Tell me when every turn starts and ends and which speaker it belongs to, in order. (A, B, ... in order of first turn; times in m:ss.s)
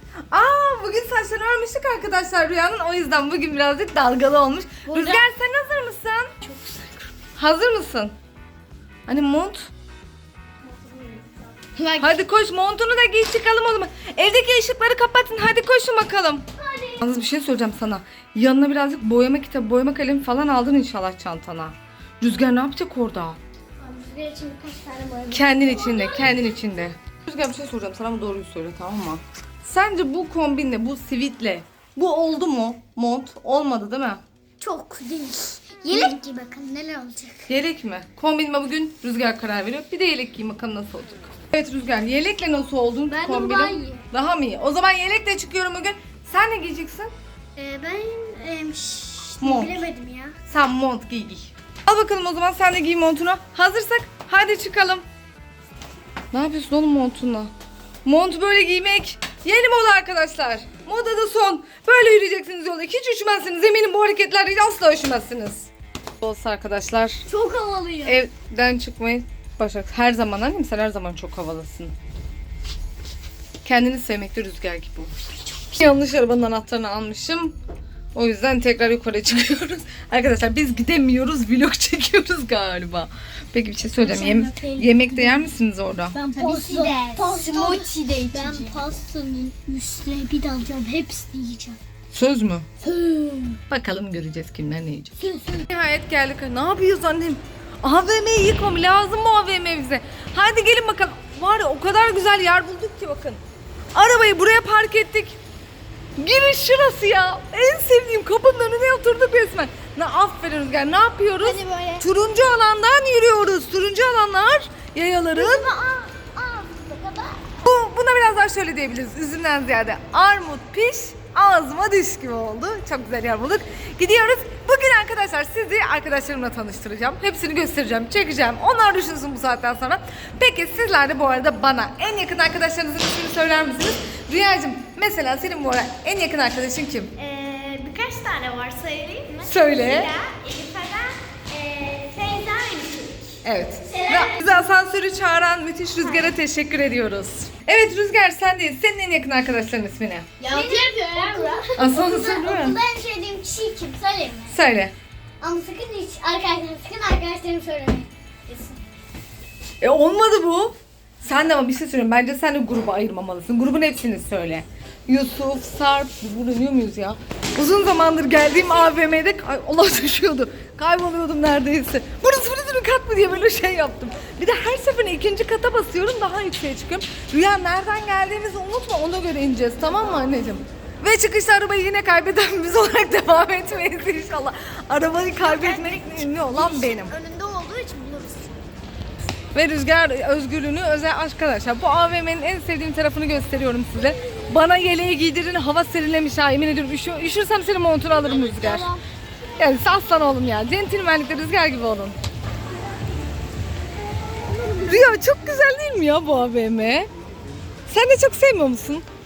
0:00.3-0:06.3 A
0:04.9-0:05.2 B
0:06.4-0:07.0 C
0:07.4-0:08.1 A
0:09.1-0:09.6 A
0:10.8-0:11.3 C
0:11.8-0:12.1 B
0:12.0-0:16.4 A
0:16.6-0:17.0 C
0:17.0-0:23.4 A
0:23.8-0:26.4 C
0:25.3-0:34.2 A
0:34.6-0:37.5 C
0:37.5-0:47.1 A
0:43.1-0:44.0 C
0:47.6-0:50.3 C
0:49.4-0:49.8 A
0:50.5-0:55.0 A
0:56.3-0:57.5 A
0:58.0-1:05.7 A
1:06.2-1:07.2 A
1:07.3-1:08.2 C
1:08.0-1:11.9 A
1:13.6-1:15.1 A
1:15.7-1:17.5 A
1:18.1-1:26.2 A
1:24.0-1:25.3 C
1:26.2-1:28.8 B
1:26.3-1:31.8 C
1:32.1-1:32.6 A
1:32.8-1:33.6 C
1:33.7-1:43.4 A
1:35.2-1:35.6 C
1:43.9-1:45.4 A
1:46.2-1:55.7 A
1:51.4-1:52.0 B
1:55.3-1:57.4 C
1:57.6-2:17.1 A
2:17.2-2:23.2 B
2:19.4-2:20.1 A
2:23.4-2:30.2 A
2:23.9-2:24.3 B
2:26.0-2:26.3 B
2:30.4-2:31.7 B
2:30.5-2:34.5 C
2:31.8-2:32.8 A
2:34.5-2:34.9 A
2:35.4-2:38.8 C
2:39.8-3:07.1 A
3:05.4-3:08.6 B
3:09.5-3:18.9 A
3:18.4-3:18.9 B
3:19.6-3:22.2 A
3:24.5-3:25.2 B
3:24.8-3:27.1 A
3:27.9-3:29.0 A